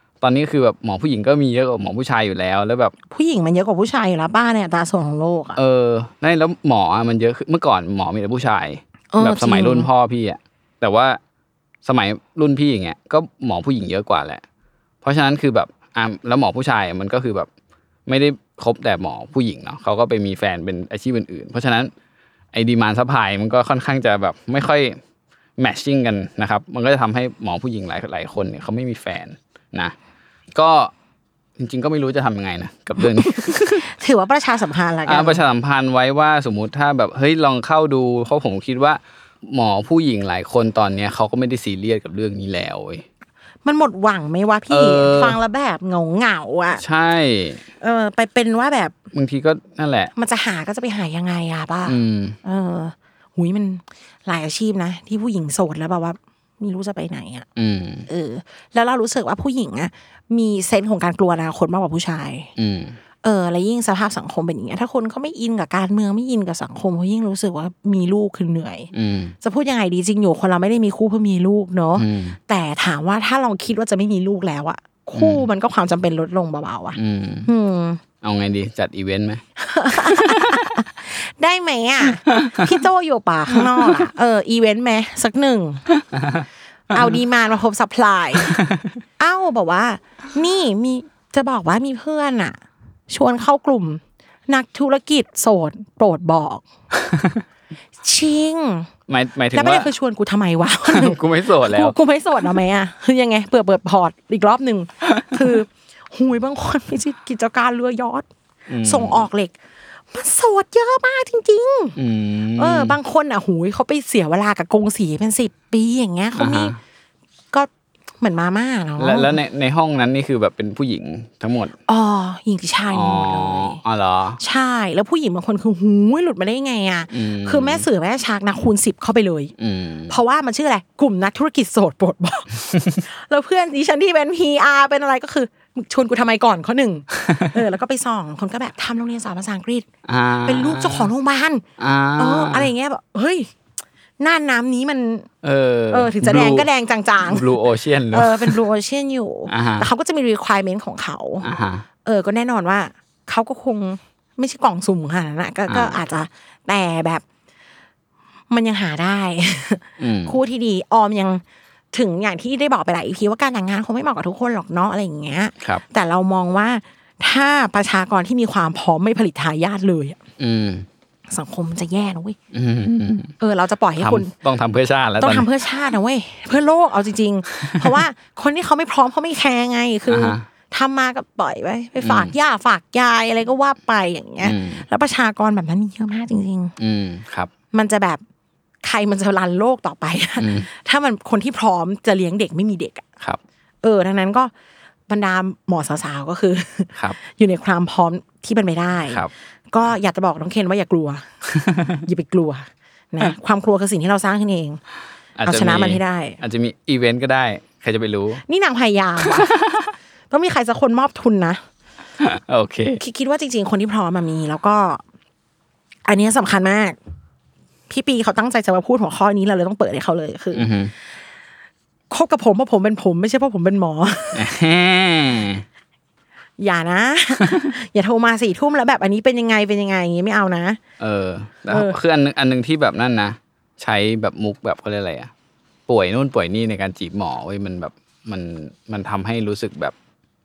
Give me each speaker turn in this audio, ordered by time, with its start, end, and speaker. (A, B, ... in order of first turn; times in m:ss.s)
0:00.2-0:02.9 A
0:03.1-0:05.6 B
0:05.6-0:11.2 A
0:09.1-0:09.9 B
0:11.8-0:14.4 A
0:15.0-0:17.5 A
0:18.1-0:21.9 A
0:22.5-0:25.0 A
0:25.6-0:29.9 A
0:30.5-0:30.9 A
0:31.6-0:33.9 A
0:33.0-0:35.4 B
0:35.0-0:43.0 A
0:43.6-0:46.8 B
0:44.7-0:45.4 A
0:46.8-0:47.6 A
0:47.8-0:48.9 B
0:49.1-0:50.1 A
0:50.2-0:57.4 B
0:51.9-0:52.4 A
0:57.6-0:58.1 A
0:58.1-1:02.5 B
1:02.6-1:03.0 A
1:03.2-1:08.9 B
1:08.9-1:09.4 A
1:09.4-1:18.0 B
1:12.0-1:12.4 A
1:15.2-1:15.4 A
1:17.0-1:17.5 A
1:18.2-1:19.4 A
1:19.6-1:25.8 B
1:20.2-1:20.6 A
1:22.3-1:22.7 A
1:26.1-1:26.4 A
1:26.9-1:28.6 B
1:28.5-1:28.8 A
1:29.2-1:32.6 B
1:33.1-1:36.6 B
1:37.0-1:37.4 A
1:38.0-1:38.9 B
1:39.1-1:39.9 A
1:39.5-1:48.3 B
1:40.8-1:42.0 A
1:48.7-1:49.3 A
1:48.8-1:49.5 B
1:50.1-1:52.0 B
1:52.0-1:53.0 A
1:52.6-1:56.7 B
1:56.4-1:56.8 A
1:58.2-1:59.4 B
1:59.0-2:01.8 A
2:01.9-2:03.8 B
2:02.9-2:04.4 A
2:04.4-2:09.5 B
2:07.1-2:07.8 A
2:09.6-2:10.2 A
2:10.1-2:19.9 B
2:17.2-2:17.4 A
2:20.0-2:21.1 A
2:20.4-2:21.6 B
2:21.8-2:22.7 A
2:22.2-2:23.5 B
2:24.2-2:25.3 B
2:25.4-2:26.7 A
2:25.9-2:27.6 B
2:27.2-2:28.6 A
2:28.1-2:31.5 B
2:29.5-2:29.9 A
2:31.4-2:31.8 A
2:32.0-2:37.2 B
2:35.7-2:36.0 A
2:38.5-2:50.2 B
2:40.0-2:40.4 A
2:50.4-2:50.8 A
2:51.3-2:52.4 B
2:52.5-2:53.3 A
2:53.4-2:54.3 B
2:54.0-2:55.5 A
2:55.2-3:06.7 B
3:00.1-3:00.4 A
3:02.0-3:02.3 A
3:04.4-3:04.8 A
3:06.8-3:07.5 A
3:07.7-3:08.2 B
3:08.8-3:13.0 B
3:10.4-3:10.7 A
3:13.8-3:14.5 B
3:15.1-3:21.2 B
3:21.6-3:21.9 A
3:21.9-3:24.8 B
3:25.4-3:28.4 A
3:25.4-3:26.4 B
3:28.5-3:29.5 B
3:29.2-3:29.8 A
3:30.3-3:31.6 B
3:32.2-3:33.0 A
3:33.0-3:35.0 B
3:36.1-3:37.0 B
3:37.9-3:40.7 B
3:40.5-3:40.9 A
3:42.1-3:44.4 B
3:44.3-3:45.6 A
3:46.6-3:50.8 B
3:51.0-3:55.3 A
3:51.7-3:52.0 B
3:55.9-3:59.9 A